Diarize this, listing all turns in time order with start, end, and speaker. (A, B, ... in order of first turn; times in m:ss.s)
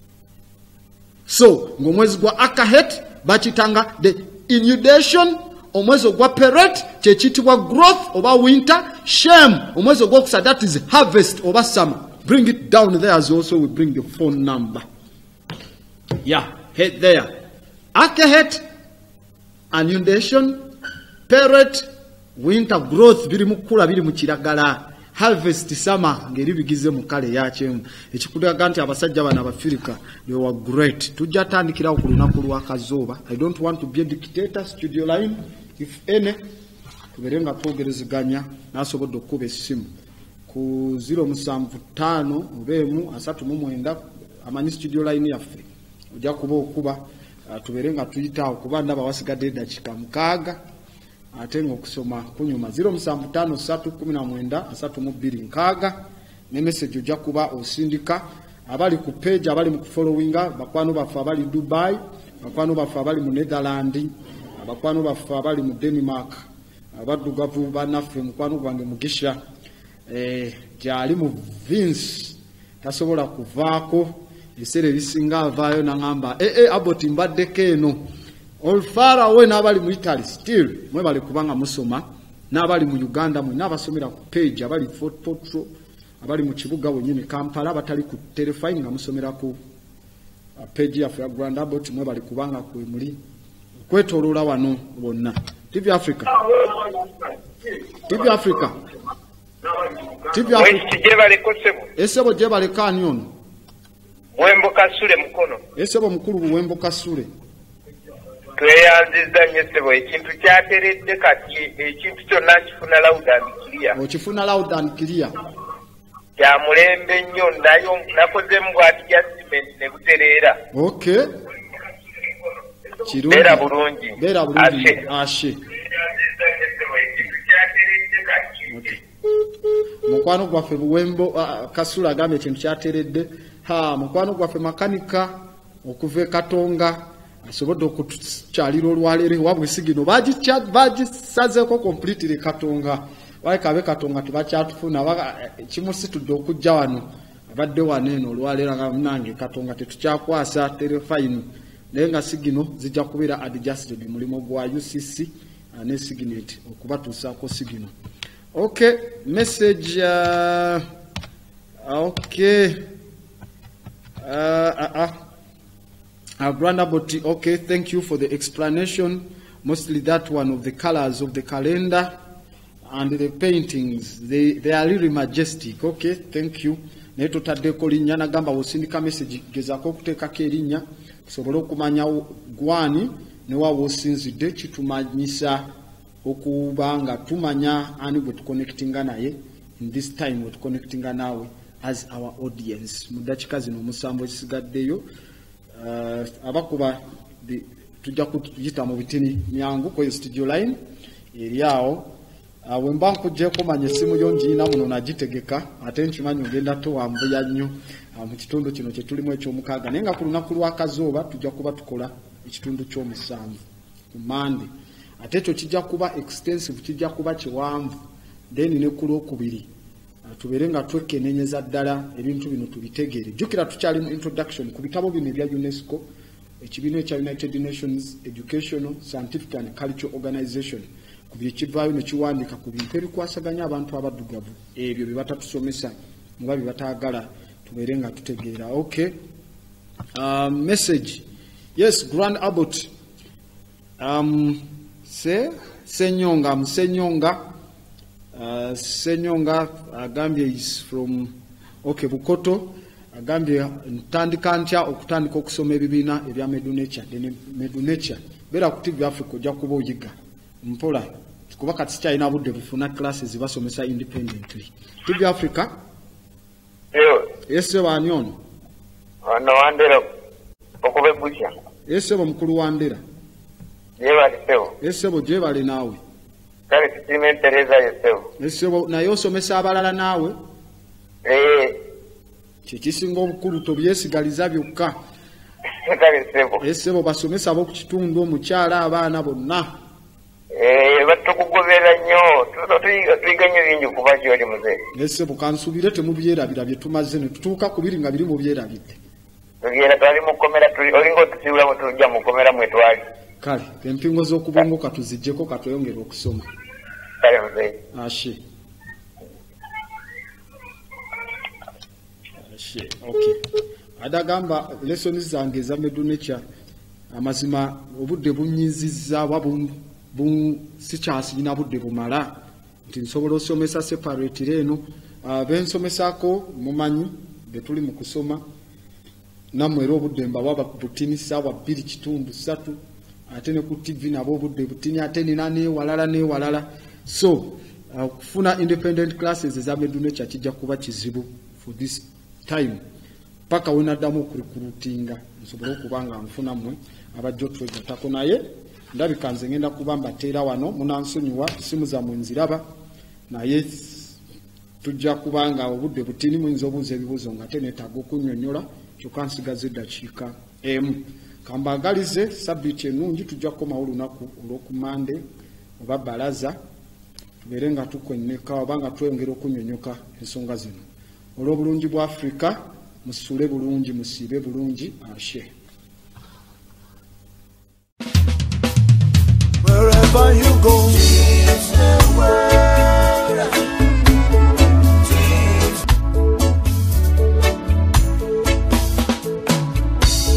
0:01.3-0:14.8 A
0:16.2-0:17.3 A
0:18.0-0:18.6 A
0:19.7-0:20.6 A
0:21.3-0:21.9 A
0:22.4-0:36.4 A
0:37.1-0:39.9 A
0:40.5-0:50.6 A
0:51.3-1:06.4 A
1:07.0-1:09.4 A
1:10.1-1:18.0 A
1:18.6-1:25.7 A
1:26.2-1:29.6 A
1:30.6-1:33.2 A
1:33.9-1:36.4 A
1:36.6-1:36.9 B
1:38.0-1:38.8 A
1:40.3-1:40.8 A
1:40.5-1:41.9 B
1:42.0-1:43.3 A
1:44.4-1:45.6 B
1:45.8-1:47.3 A
1:48.6-1:54.0 B
1:53.9-1:55.3 A
1:56.4-2:00.6 B
2:00.7-2:01.3 A
2:03.0-2:05.6 A
2:03.3-2:05.0 B
2:06.1-2:08.6 B
2:08.7-2:09.0 A
2:10.0-2:37.9 A
2:38.5-2:40.8 A
2:41.9-2:42.9 A
2:44.2-2:45.1 A
2:46.4-2:52.1 A
2:52.9-3:05.7 A
3:06.2-3:15.0 A
3:15.8-3:20.8 A
3:21.3-3:22.1 A
3:22.6-3:34.7 A
3:35.2-3:38.0 A
3:38.5-3:39.7 A
3:40.3-3:46.1 A
3:46.6-3:59.1 A
4:00.2-4:01.2 A
4:01.8-4:02.9 A
4:04.0-4:07.4 A
4:08.4-4:25.7 A
4:26.9-4:27.3 B
4:27.5-4:28.4 A
4:29.2-4:30.1 B
4:30.8-4:31.5 B
4:31.9-4:33.0 A
4:34.0-4:34.7 B
4:34.8-4:36.0 A
4:36.7-4:38.3 B
4:38.4-4:40.4 A
4:41.2-4:41.8 B
4:42.7-4:45.0 A
4:45.8-4:46.6 B
4:46.6-4:49.7 A
4:50.5-4:54.8 B
4:54.9-4:59.0 A
4:59.6-5:03.0 B
5:03.4-5:06.5 A
5:07.2-5:07.8 B
5:07.9-5:08.4 A
5:12.5-5:13.4 A
5:14.0-5:16.4 A
5:17.1-5:22.3 A
5:22.9-5:28.4 A
5:29.5-5:42.8 A
5:43.5-5:52.6 A
5:53.3-5:54.2 A
5:54.8-6:05.2 A
6:05.8-6:06.6 A
6:07.4-6:10.8 A
6:11.4-6:15.5 A
6:19.6-6:23.6 C
6:25.0-6:25.8 C